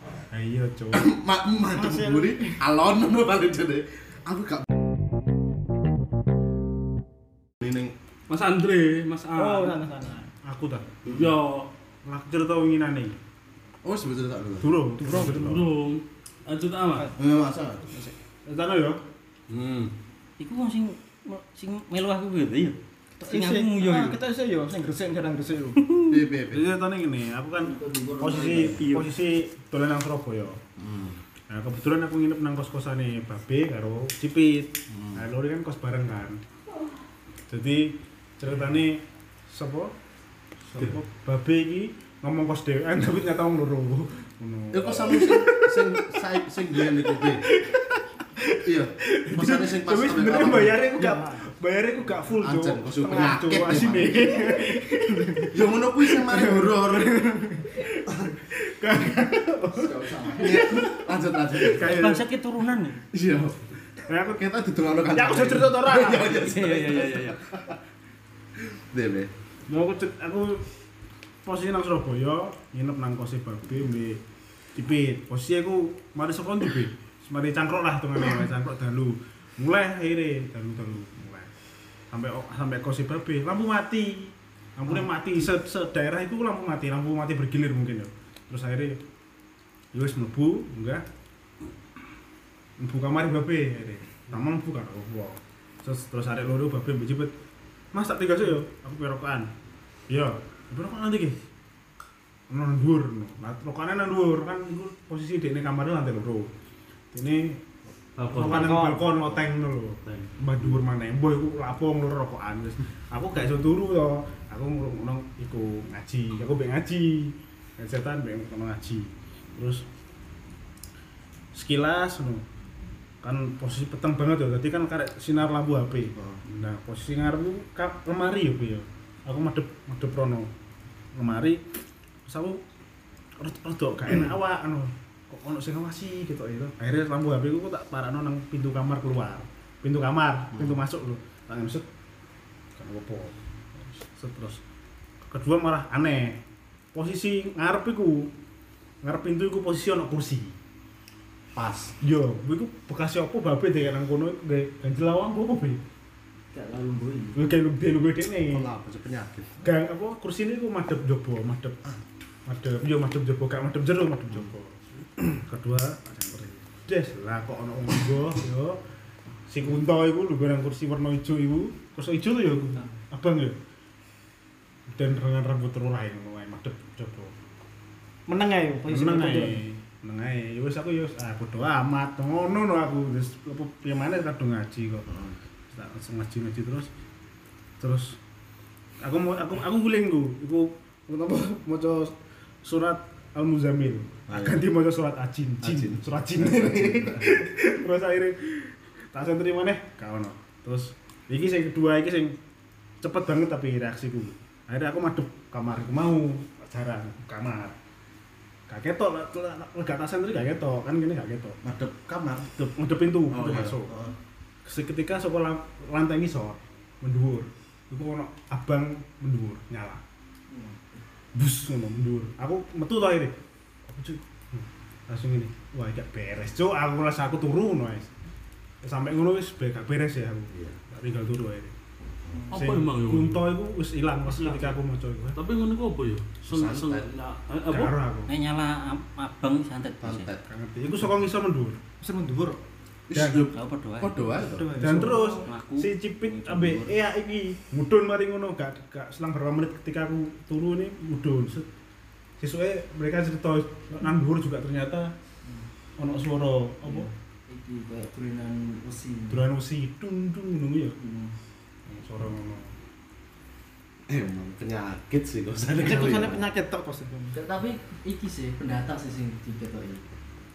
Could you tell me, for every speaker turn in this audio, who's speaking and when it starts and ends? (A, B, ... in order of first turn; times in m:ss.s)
0:00.3-0:01.1 A
0:00.9-0:04.6 B
0:01.7-0:02.6 C
0:07.6-0:07.9 B
0:08.3-0:09.8 D
0:09.4-0:10.3 C
0:10.4-0:10.9 A
0:11.0-0:11.3 B
0:11.0-0:11.7 D
0:12.0-0:13.1 A
0:13.8-0:14.7 B
0:14.6-0:15.7 A
0:15.0-0:15.4 C
0:15.1-0:17.1 D
0:17.2-0:17.8 B
0:18.4-0:19.0 A
0:19.5-0:19.9 D
0:20.4-0:24.2 E
0:23.2-0:25.8 C
0:26.1-0:26.6 B
0:26.5-0:30.6 A
0:27.6-0:29.0 F
0:30.8-0:31.2 B
0:31.5-0:36.4 A
0:34.9-0:35.2 B
0:37.5-0:39.9 A
0:40.7-0:45.8 A
0:44.7-0:47.5 B
0:47.5-0:47.8 A
0:48.6-0:50.8 B
0:49.2-0:55.5 A
0:51.0-0:51.4 C
0:52.4-0:54.4 B
0:54.4-0:55.5 C
0:55.5-0:57.3 B
0:56.1-0:57.8 C
0:57.8-1:01.0 A
0:59.8-1:00.4 F
1:00.1-1:02.0 B
1:01.7-1:02.2 A
1:01.8-1:03.0 E
1:03.1-1:03.6 B
1:04.1-1:04.4 A
1:04.3-1:07.7 B
1:05.1-1:06.4 A
1:06.3-1:07.3 E
1:08.8-1:09.3 B
1:09.7-1:10.6 A
1:11.4-1:14.2 A
1:14.7-1:21.5 A
1:22.1-1:29.0 A
1:29.9-1:31.0 A
1:32.8-1:37.3 A
1:37.9-1:39.5 A
1:40.1-1:41.4 A
1:42.5-1:46.5 A
1:47.1-1:47.6 A
1:48.2-1:49.0 D
1:48.3-1:59.8 A
1:48.4-1:49.0 C
1:50.0-1:50.3 D
2:01.5-2:02.4 A
2:03.2-2:10.5 A
2:11.1-2:11.6 A
2:12.2-2:12.6 A
2:13.4-2:21.8 A
2:22.8-2:24.6 A
2:25.3-2:26.4 A
2:26.9-2:28.3 A
2:29.0-2:30.6 A
2:31.5-2:31.9 B
2:32.0-2:35.8 A
2:36.5-2:37.4 F
2:37.3-2:38.7 A
2:38.5-2:39.6 B
2:39.6-2:48.8 A
2:49.5-2:53.6 A
2:54.9-2:57.3 A
2:58.3-2:59.6 C
2:58.9-3:05.1 A
3:05.1-3:05.3 B
3:05.7-3:06.9 A
3:07.8-3:08.2 A
3:09.0-3:22.4 A
3:14.3-3:14.6 B
3:15.6-3:17.4 B
3:23.0-3:27.7 A
3:28.7-3:31.6 A
3:31.6-3:32.6 B
3:32.5-3:33.9 A
3:33.3-3:34.1 B
3:34.6-3:40.0 A
3:40.5-3:41.0 F
3:41.3-3:43.4 A
3:43.9-3:48.1 A
3:48.8-3:51.7 A
3:50.5-3:50.8 B
3:52.5-3:53.5 D
3:52.5-3:55.4 A
3:54.3-3:54.7 C
3:55.4-3:57.9 D
3:56.4-3:57.1 B
3:57.7-3:58.3 A
3:58.3-4:00.3 E
4:00.0-4:00.4 B
4:00.5-4:01.8 A
4:02.0-4:02.6 C
4:03.1-4:04.9 B
4:03.1-4:03.5 A
4:03.5-4:04.2 E
4:04.4-4:05.4 C
4:04.7-4:11.7 A
4:05.0-4:06.9 E
4:12.4-4:15.1 A
4:16.0-4:17.1 A
4:16.8-4:19.5 F
4:19.3-4:21.0 A
4:20.9-4:21.3 F
4:21.9-4:22.7 A
4:24.1-4:26.4 B
4:25.8-4:27.4 C
4:27.3-4:30.0 F